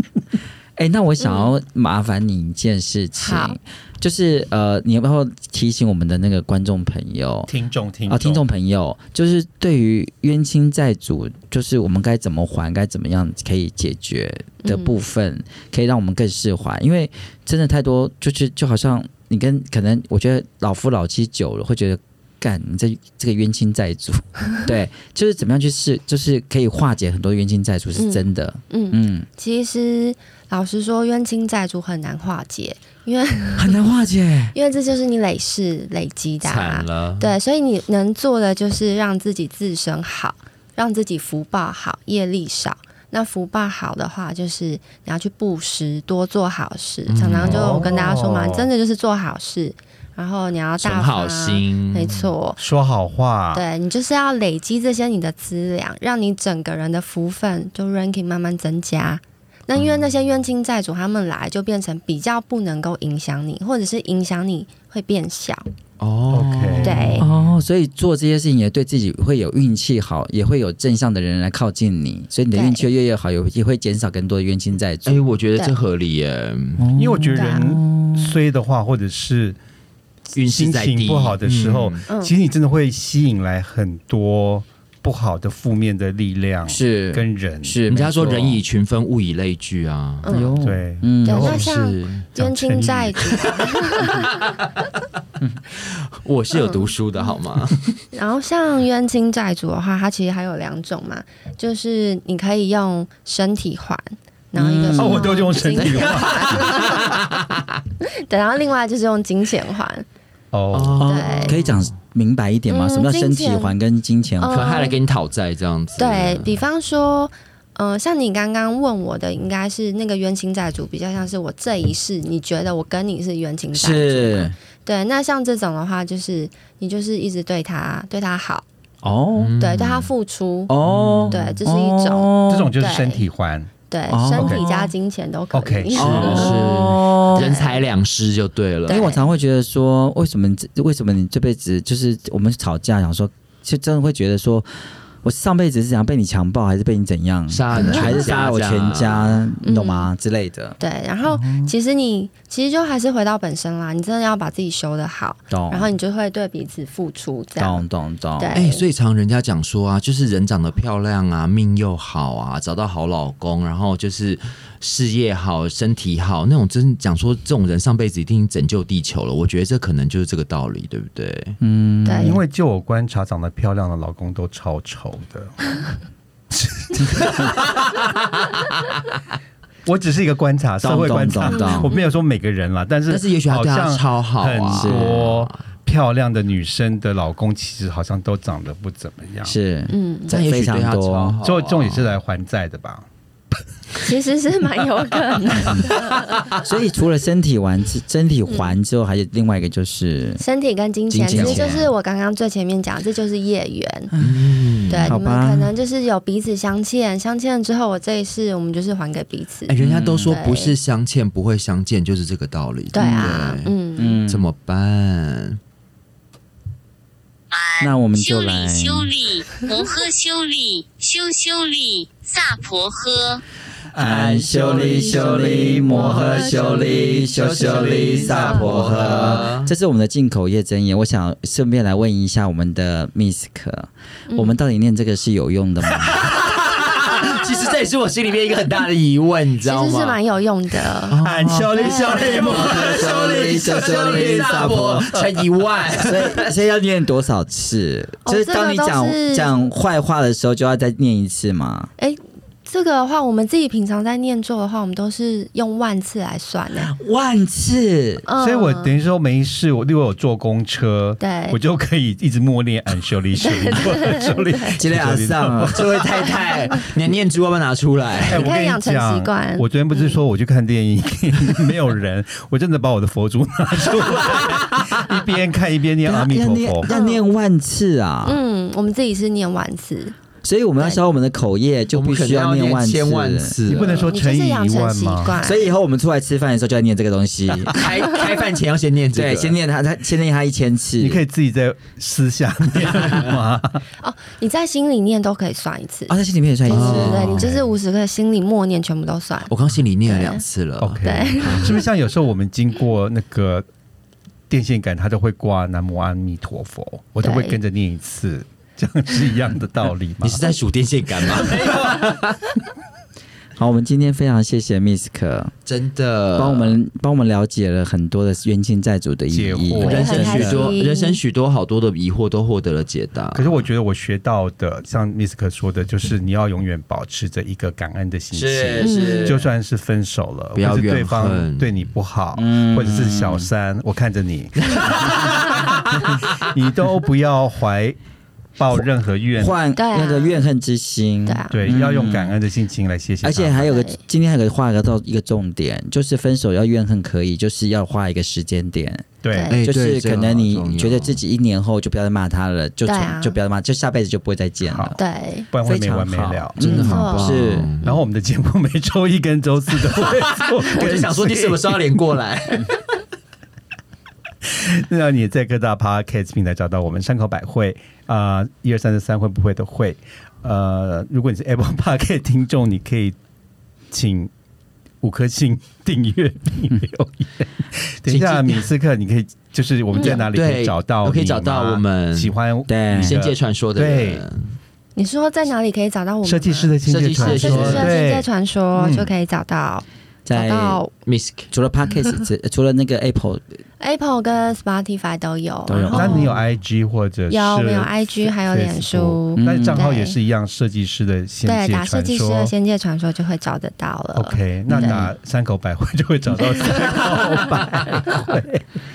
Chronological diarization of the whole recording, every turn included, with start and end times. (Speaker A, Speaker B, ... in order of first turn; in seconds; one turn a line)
Speaker A: 0.8-7.5
Speaker B: 1.2-1.5
Speaker B: 3.2-3.6
Speaker C: 7.5-8.4
Speaker A: 8.1-29.3
Speaker B: 14.6-15.0
Speaker B: 27.9-33.8
Speaker A: 33.6-34.5
Speaker B: 34.5-52.6
Speaker D: 36.4-37.3
Speaker D: 47.1-47.8
Speaker C: 47.4-48.7
Speaker D: 50.8-52.3
Speaker C: 52.6-53.6
Speaker B: 53.5-65.7
Speaker D: 66.0-67.5
Speaker C: 66.3-67.1
Speaker B: 66.8-67.3
Speaker A: 67.2-75.2
Speaker B: 72.5-72.8
Speaker D: 75.1-76.9
Speaker A: 76.8-78.4
Speaker C: 76.9-79.6
Speaker B: 77.3-77.7
Speaker D: 80.3-82.1
Speaker C: 80.5-87.8
Speaker B: 82.1-82.3
Speaker A: 86.7-88.6
Speaker D: 87.9-90.3
Speaker B: 90.2-90.6
Speaker A: 90.3-91.6
Speaker C: 90.6-91.7
Speaker B: 91.2-94.4
Speaker D: 91.3-94.5
Speaker D: 95.8-98.0
Speaker B: 96.6-96.8
Speaker B: 98.1-107.1
Speaker A: 104.5-105.5
Speaker C: 105.0-107.1
Speaker D: 105.8-107.5
Speaker B: 108.0-110.0
Speaker C: 110.5-111.1
Speaker D: 110.7-111.9
Speaker A: 111.0-114.6
Speaker B: 111.0-111.6
Speaker B: 112.7-113.8
Speaker B: 114.4-115.0
Speaker D: 114.5-116.6
Speaker B: 116.0-128.7
Speaker A: 123.7-124.6
Speaker A: 129.0-129.6
Speaker D: 129.4-130.1
Speaker B: 129.6-130.7
Speaker A: 130.7-132.7
Speaker D: 130.8-131.5
Speaker B: 131.3-133.3
Speaker C: 132.5-133.7
Speaker B: 133.9-137.8
Speaker A: 134.1-134.9
Speaker C: 134.3-134.7
Speaker C: 135.5-136.5
Speaker D: 135.9-139.1
Speaker A: 136.1-137.5
Speaker B: 138.9-139.3
Speaker A: 138.9-151.7
Speaker D: 147.5-149.4
Speaker B: 147.8-148.4
Speaker B: 149.6-150.1
Speaker B: 150.8-157.8
Speaker A: 155.5-155.9
Speaker A: 157.6-158.6
Speaker B: 158.4-158.8
Speaker D: 158.5-171.6
Speaker A: 171.6-172.4
Speaker B: 172.1-172.4
Speaker C: 172.2-175.9
Speaker C: 176.5-177.7
Speaker C: 179.9-189.6
Speaker A: 180.8-181.9
Speaker B: 181.4-182.1
Speaker D: 183.1-185.6
Speaker A: 184.7-185.5
Speaker A: 189.4-191.4
Speaker B: 189.9-190.4
Speaker D: 190.3-192.2
Speaker C: 191.4-193.1
Speaker B: 194.0-196.4
Speaker A: 196.6-200.4
Speaker B: 198.5-198.8
Speaker B: 200.4-204.1
Speaker D: 201.2-201.9
Speaker A: 201.2-201.9
Speaker A: 204.1-205.7
Speaker D: 204.2-205.1
Speaker B: 204.9-210.8
Speaker D: 209.7-213.8
Speaker A: 209.8-210.4
Speaker B: 212.9-214.2
Speaker A: 213.0-213.4
Speaker A: 214.0-214.5
Speaker D: 214.3-215.6
Speaker E: 217.5-223.4
Speaker A: 217.8-219.1
Speaker C: 223.9-229.5
Speaker A: 224.0-236.3
Speaker D: 224.0-229.7
Speaker B: 225.1-226.9
Speaker B: 228.1-228.8
Speaker B: 234.3-234.6
Speaker D: 236.0-240.2
Speaker B: 239.7-241.2
Speaker D: 241.1-246.5
Speaker C: 241.2-245.4
Speaker B: 241.7-242.7
Speaker A: 242.1-245.1
Speaker A: 246.0-251.9
Speaker B: 248.2-249.7
Speaker B: 252.0-256.9
Speaker A: 256.8-258.2
Speaker B: 258.2-258.9
Speaker C: 258.4-266.3
Speaker B: 261.2-261.6
Speaker B: 263.4-264.8
Speaker A: 264.7-265.9
Speaker D: 265.7-268.5
Speaker B: 266.3-266.8
Speaker C: 268.3-276.9
Speaker B: 268.3-270.2
Speaker D: 273.9-275.2
Speaker A: 276.0-278.4
Speaker B: 276.9-277.2
Speaker B: 278.2-280.2
Speaker A: 280.4-283.6
Speaker D: 281.9-284.1
Speaker C: 283.7-285.4
Speaker B: 284.1-285.7
Speaker A: 285.4-288.2
Speaker D: 287.6-289.6
Speaker A: 289.1-291.2
Speaker C: 291.0-293.8
Speaker D: 292.9-293.2
Speaker B: 294.0-299.5
Speaker A: 296.1-297.6
Speaker D: 296.7-297.6
Speaker D: 299.5-301.2
Speaker B: 300.1-300.4
Speaker C: 300.8-303.7
Speaker B: 301.0-301.8
Speaker A: 301.4-301.8
Speaker C: 304.5-310.4
Speaker B: 307.2-307.6
Speaker D: 310.2-312.4
Speaker C: 311.5-312.1
Speaker A: 313.6-315.5
Speaker D: 315.7-316.8
Speaker A: 316.4-320.8
Speaker C: 319.3-320.6
Speaker D: 319.8-323.6
Speaker B: 319.8-321.2
Speaker C: 323.3-338.0
Speaker A: 328.3-329.5
Speaker D: 328.7-329.3
Speaker B: 328.8-329.4
Speaker D: 330.6-331.9
Speaker A: 332.4-333.5
Speaker D: 334.7-336.1
Speaker C: 338.6-339.6
Speaker A: 339.4-342.4
Speaker B: 339.8-340.4
Speaker B: 341.2-341.5
Speaker C: 341.5-343.7
Speaker A: 343.2-349.1
Speaker B: 343.6-344.0
Speaker C: 349.2-349.5
Speaker B: 349.3-349.6
Speaker D: 349.5-351.2
Speaker A: 349.6-355.0
Speaker B: 352.9-353.4
Speaker C: 354.6-355.0
Speaker B: 355.0-355.5
Speaker C: 355.5-357.0
Speaker A: 355.6-357.7
Speaker D: 356.6-358.0
Speaker B: 356.6-357.4
Speaker C: 357.8-361.8
Speaker D: 359.8-362.8
Speaker C: 364.4-373.2
Speaker C: 373.9-374.3
Speaker C: 375.0-384.2
Speaker D: 378.1-378.7
Speaker B: 379.9-380.2
Speaker D: 380.0-382.4
Speaker A: 382.7-383.2
Speaker D: 382.9-384.6
Speaker B: 385.0-390.9
Speaker C: 386.2-388.3
Speaker D: 386.9-388.0
Speaker A: 390.2-390.8
Speaker D: 391.1-391.5
Speaker A: 391.5-393.4
Speaker B: 393.8-396.3
Speaker A: 395.7-396.3
Speaker C: 395.9-402.5
Speaker B: 397.3-400.2
Speaker A: 399.4-399.9
Speaker B: 401.4-405.0
Speaker C: 404.1-408.6
Speaker A: 404.7-405.1